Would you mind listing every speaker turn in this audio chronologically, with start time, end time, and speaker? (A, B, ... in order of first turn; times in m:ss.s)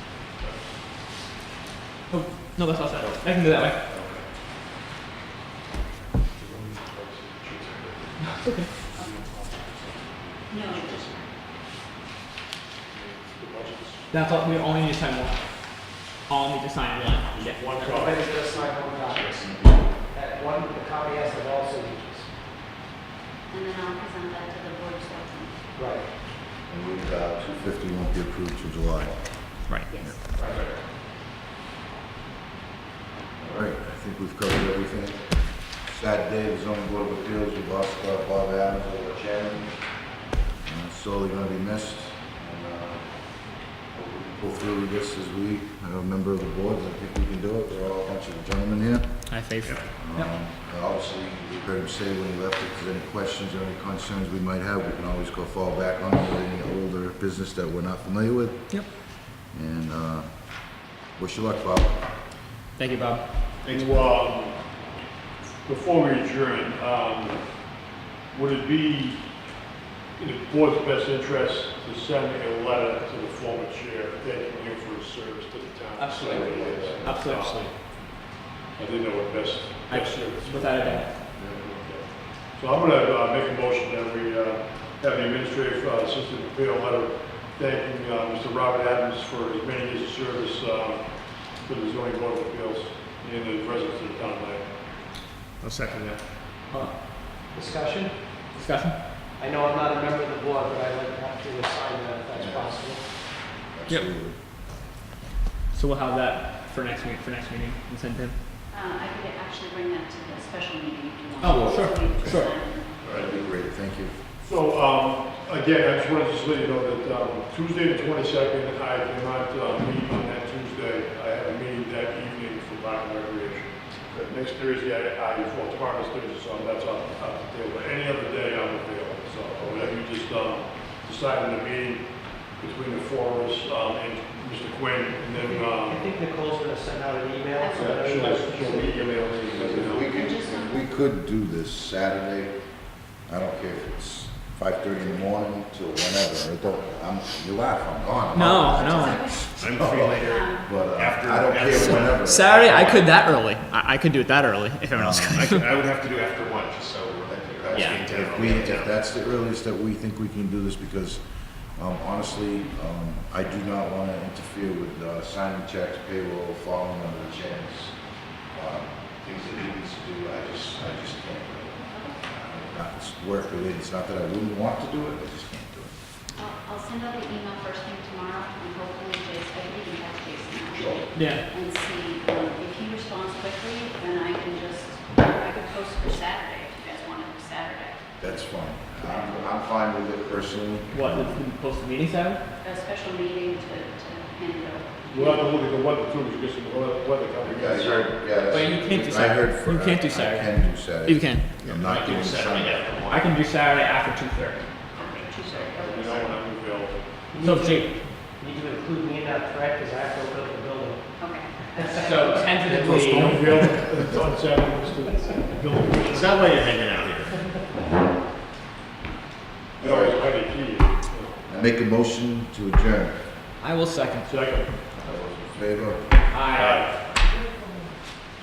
0:02.1-0:03.8 A
0:03.0-0:04.3 B
0:06.4-0:07.5 C
0:07.4-0:08.3 B
0:08.4-0:08.7 A
0:08.9-0:09.2 D
0:09.0-0:11.2 C
0:10.5-0:11.3 D
0:12.9-0:14.7 C
0:14.1-0:15.5 A
0:16.0-0:17.9 A
0:17.3-0:19.7 C
0:17.8-0:22.3 E
0:23.5-0:25.7 D
0:25.8-0:26.1 E
0:26.7-0:30.2 F
0:29.9-0:30.2 D
0:30.4-0:30.8 E
0:33.4-1:02.1 F
0:49.3-0:49.8 A
1:02.8-1:03.3 A
1:03.6-1:04.6 C
1:05.7-1:07.5 C
1:08.3-1:09.3 C
1:10.2-1:34.7 C
1:16.0-1:17.7 A
1:16.4-1:17.1 F
1:19.9-1:21.2 A
1:35.6-1:36.2 B
1:37.5-1:38.3 E
1:38.5-1:39.0 A
1:39.4-1:43.0 E
1:42.4-1:42.8 F
1:43.7-1:44.4 F
1:45.7-1:48.4 A
1:48.7-1:53.1 D
1:51.4-1:52.5 A
1:53.0-1:53.3 B
1:53.0-1:54.2 F
1:54.4-2:16.1 C
2:15.4-2:19.2 E
2:17.6-2:18.0 D
2:17.7-2:20.1 C
2:19.5-2:22.7 F
2:20.1-2:20.9 D
2:23.2-2:32.7 F
2:28.3-2:29.3 A
2:28.7-2:29.6 D
2:29.6-2:33.2 B
2:30.3-2:30.8 D
2:31.8-2:35.6 A
2:35.0-2:35.4 F
2:35.0-2:39.0 B
2:37.7-2:56.0 F
2:37.7-2:38.0 A
2:51.9-2:52.2 D
2:56.4-3:08.3 D
3:00.7-3:01.1 F
3:01.2-3:01.4 A
3:08.2-3:11.4 F
3:09.0-3:09.4 D
3:10.9-3:12.4 A
3:12.6-3:15.5 D
3:15.1-3:18.3 C
3:17.4-3:22.9 F
3:18.4-3:21.7 A
3:21.6-3:23.4 B
3:23.1-3:24.7 A
3:24.9-3:26.0 D
3:25.0-3:26.4 B
3:25.5-3:27.0 C
3:27.3-3:31.1 E
3:27.4-3:28.0 A
3:31.2-3:32.7 D
3:31.8-3:33.2 E
3:32.0-3:33.4 A
3:32.7-3:36.4 C
3:32.8-3:33.7 F
3:36.1-3:37.6 B
3:39.8-3:41.4 C
3:39.8-3:40.3 F
3:41.5-3:43.2 F
3:43.6-3:44.3 A
3:44.2-3:44.8 C
3:45.0-3:46.1 F
3:46.3-3:46.8 A
3:46.5-3:46.8 B
3:46.5-3:47.0 C